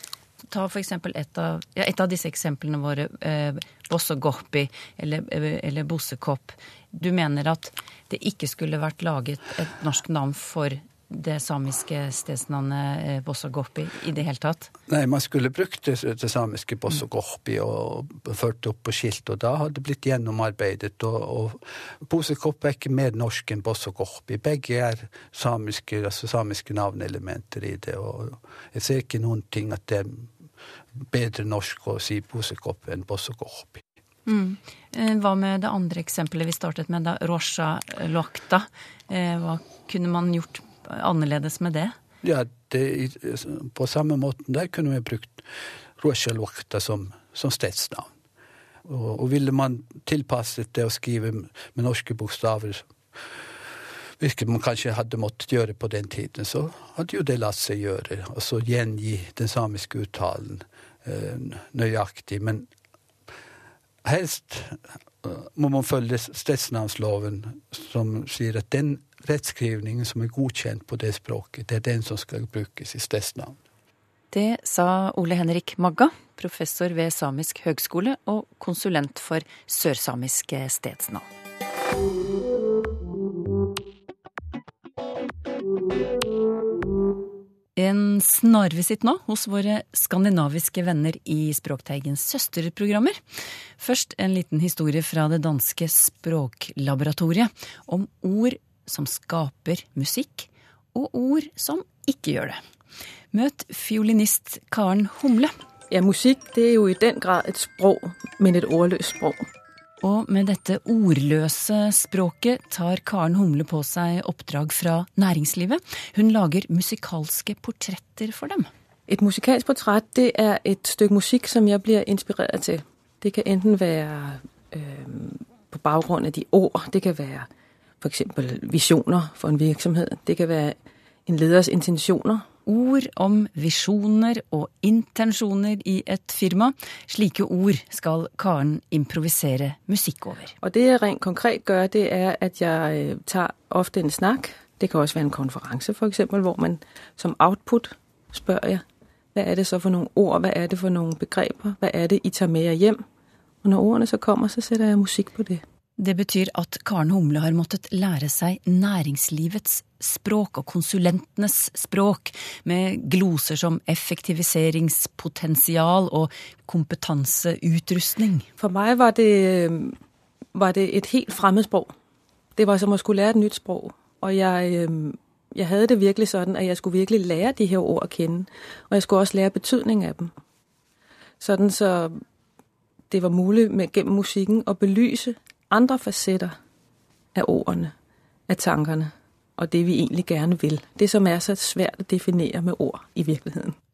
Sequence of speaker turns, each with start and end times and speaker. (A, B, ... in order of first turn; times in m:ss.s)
0:00.5-0:14.7 A
0:14.9-0:30.3 B
0:31.0-0:33.8 B
0:34.3-0:41.9 A
0:42.2-0:45.5 B
0:46.0-0:48.1 B
0:48.8-0:52.9 B
0:54.2-1:02.7 B
1:04.0-1:13.6 B
1:14.3-1:21.3 A
1:27.8-1:33.2 A
1:33.8-1:42.6 A
1:43.3-1:45.5 A
1:45.9-1:49.4 C
1:50.0-1:58.7 A
1:59.1-2:07.5 C
2:08.0-2:12.4 C
2:12.7-2:20.5 A
2:20.6-2:28.8 C
2:29.3-2:33.0 C
2:33.6-2:35.6 C
2:36.0-2:48.5 A
2:48.6-2:50.0 C
2:50.5-2:51.9 C
2:52.6-3:00.3 C
3:01.4-3:02.2 C
3:03.1-3:06.6 C
3:07.4-3:07.9 C
3:08.5-3:13.8 C